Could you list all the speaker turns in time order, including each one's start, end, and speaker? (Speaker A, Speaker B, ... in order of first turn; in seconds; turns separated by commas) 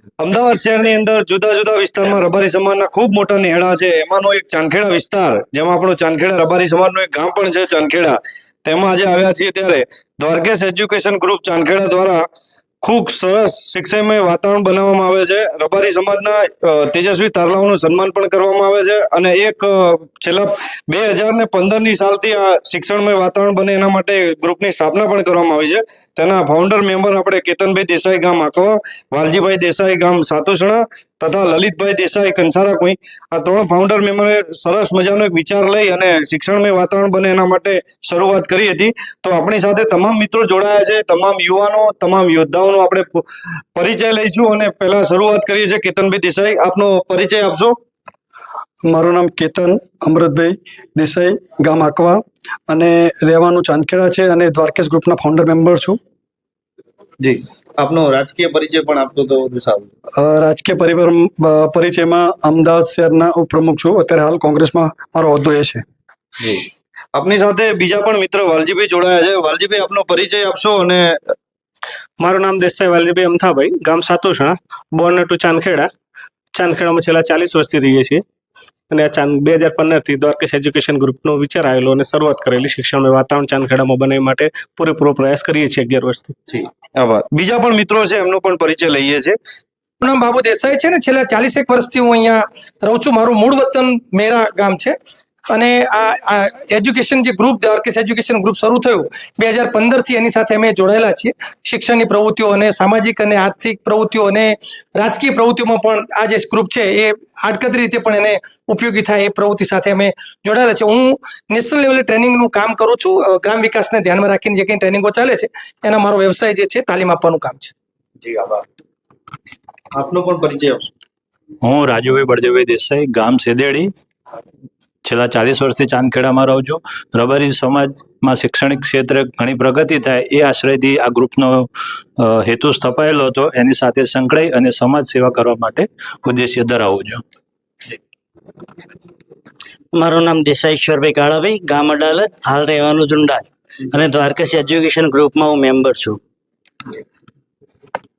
Speaker A: 0.2-12.2, Speaker A: 12.8-47.7, Speaker B: 48.9-56.0, Speaker B: 60.2-65.8, Speaker A: 67.1-71.1, Speaker C: 72.2-75.9, Speaker C: 76.5-78.2, Speaker C: 78.9-86.3, Speaker A: 86.5-89.3, Speaker D: 90.0-95.0, Speaker D: 95.5-117.7, Speaker E: 121.6-123.9, Speaker E: 125.0-131.7, Speaker E: 132.2-137.2, Speaker F: 139.9-146.2